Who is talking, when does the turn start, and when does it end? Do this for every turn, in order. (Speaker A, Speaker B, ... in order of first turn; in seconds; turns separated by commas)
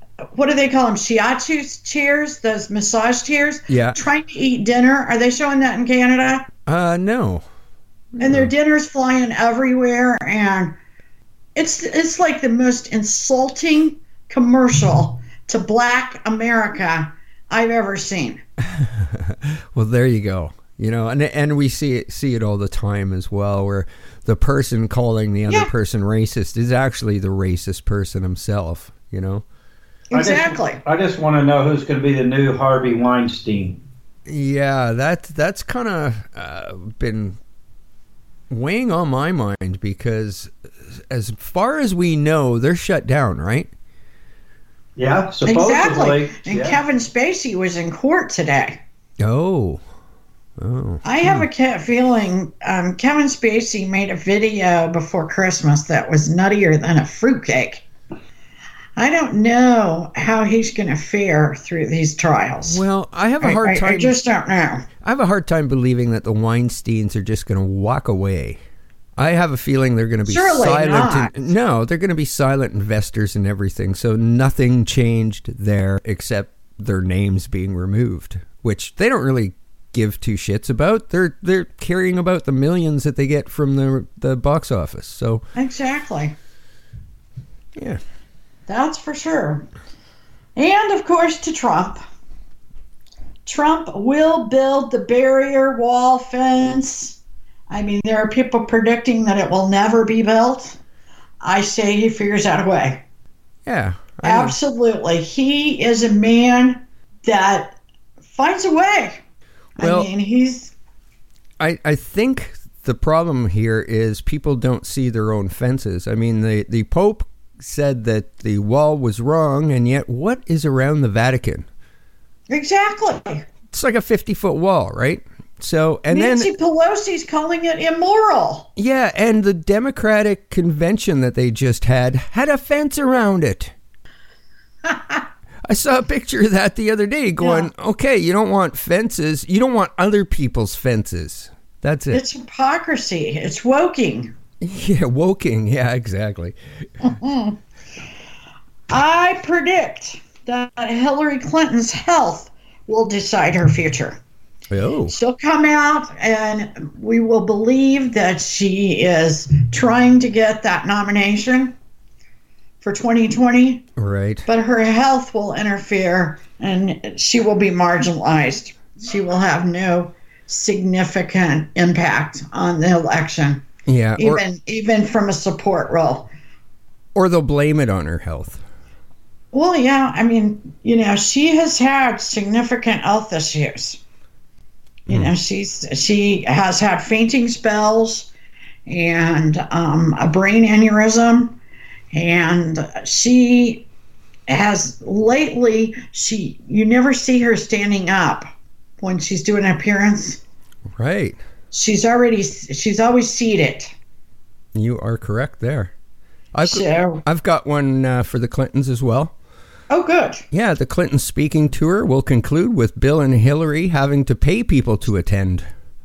Speaker A: 0.3-6.5, Speaker B: 3.7-4.0, Speaker B: 6.7-7.4, Speaker B: 8.2-8.5, Speaker A: 8.2-10.7, Speaker A: 11.5-18.4, Speaker B: 18.7-29.4, Speaker A: 30.1-30.8, Speaker C: 30.1-33.8, Speaker B: 34.2-37.4, Speaker B: 38.5-43.7, Speaker C: 45.0-46.8, Speaker A: 45.4-48.8, Speaker B: 49.2-49.8, Speaker B: 50.6-51.4, Speaker A: 51.0-57.8, Speaker A: 59.0-62.8, Speaker B: 62.7-64.2, Speaker A: 63.4-64.9, Speaker B: 65.0-68.6, Speaker B: 69.2-85.4, Speaker A: 70.2-71.4, Speaker A: 85.5-86.3, Speaker B: 87.7-88.0, Speaker A: 88.7-89.7, Speaker A: 90.5-92.0, Speaker A: 93.5-100.8, Speaker A: 101.4-103.0, Speaker B: 103.7-104.5, Speaker A: 104.2-107.8, Speaker A: 108.3-109.2, Speaker A: 109.8-110.7, Speaker B: 109.8-110.1, Speaker B: 111.6-121.7, Speaker A: 122.5-123.5, Speaker B: 123.7-126.5, Speaker A: 126.1-128.7, Speaker B: 128.8-133.7, Speaker A: 134.8-135.2, Speaker B: 135.6-142.2, Speaker A: 137.4-137.7, Speaker A: 142.1-144.3, Speaker B: 144.6-146.6, Speaker A: 147.0-147.6, Speaker A: 148.9-154.2, Speaker B: 154.7-155.1, Speaker A: 155.1-161.7, Speaker A: 162.8-163.8, Speaker B: 163.9-164.4, Speaker A: 164.5-176.3, Speaker B: 173.8-174.4, Speaker B: 177.1-178.6, Speaker A: 179.5-184.0, Speaker A: 185.1-188.3, Speaker A: 188.9-191.6, Speaker A: 192.1-193.9, Speaker A: 194.5-198.5, Speaker A: 199.0-200.4, Speaker B: 200.9-201.4, Speaker A: 201.7-203.9, Speaker B: 204.7-205.9, Speaker B: 206.5-209.3, Speaker A: 206.6-207.2, Speaker A: 209.9-210.4, Speaker B: 210.5-215.7